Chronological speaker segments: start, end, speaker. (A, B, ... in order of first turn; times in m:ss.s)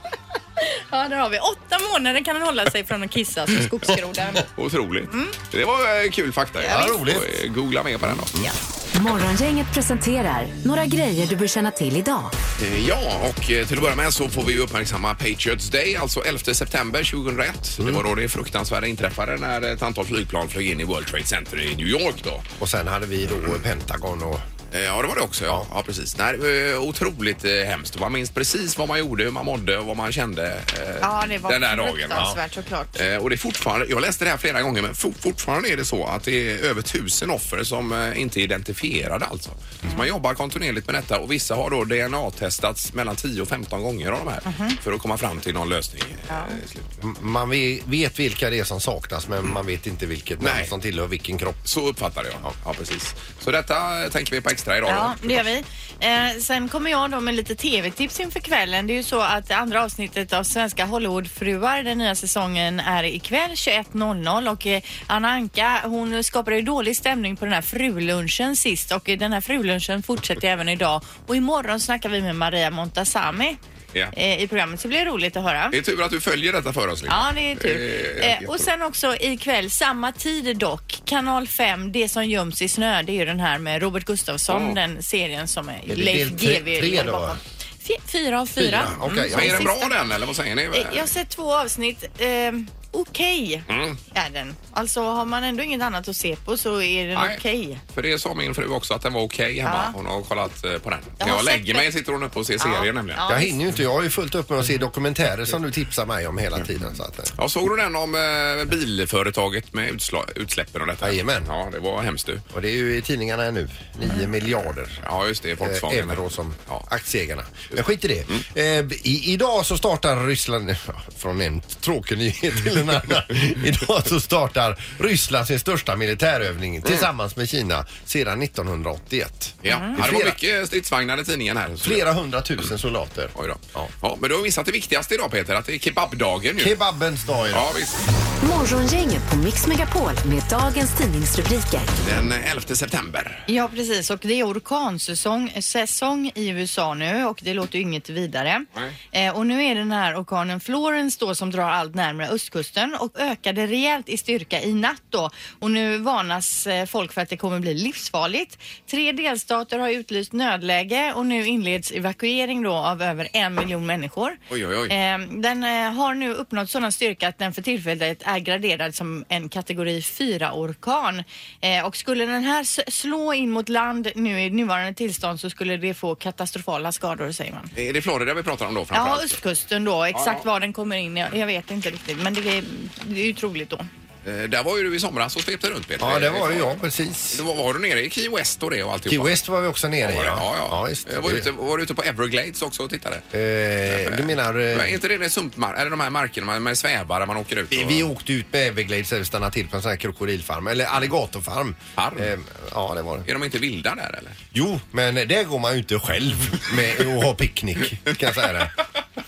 0:00.6-0:04.5 A
0:04.5-0:08.4 B
0:05.1-0:05.4 A
0:06.6-0:07.4 C
0:06.6-0:06.9 A
0:08.9-0:12.3 D
0:12.6-0:22.5 B
0:22.6-0:24.4 C
0:24.7-0:32.3 B
0:31.0-0:33.0 A
0:33.0-0:47.0 B
0:44.5-0:44.8 A
0:46.3-0:46.6 A
0:47.0-0:51.6 C
0:50.4-0:50.7 B
0:51.7-0:55.5 B
0:54.9-1:13.6 A
1:14.1-1:15.8 A
1:15.7-1:18.7 B
1:17.1-1:29.9 A
1:24.5-1:24.8 B
1:25.9-1:27.4 C
1:28.6-1:29.7 C
1:29.3-1:31.1 B
1:30.7-1:37.8 A
1:33.7-1:34.0 B
1:37.2-1:37.4 B
1:37.9-1:43.2 B
1:39.6-1:39.9 A
1:41.2-1:41.9 A
1:42.6-1:43.6 A
1:43.3-1:47.3 C
1:47.4-1:52.4 B
1:51.0-1:51.5 C
1:52.5-1:55.0 C
1:55.0-1:56.9 B
1:55.6-2:10.4 C
2:09.6-2:12.1 B
2:11.8-2:13.9 C
2:13.4-2:16.8 B
2:16.6-2:17.7 C
2:17.5-2:18.0 B
2:18.4-2:22.0 D
2:22.0-2:23.5 B
2:23.5-2:57.7 A
2:44.5-2:44.9 B
2:57.8-2:59.4 B
2:58.9-3:03.9 A
3:00.1-3:00.4 B
3:04.2-3:06.7 B
3:06.0-3:07.4 C
3:07.3-3:09.4 B
3:09.1-3:11.5 C
3:10.0-3:13.2 B
3:13.3-3:15.0 C
3:13.9-3:18.1 B
3:17.7-3:23.3 C
3:22.0-3:22.3 B
3:23.2-3:24.4 B
3:24.5-3:28.7 C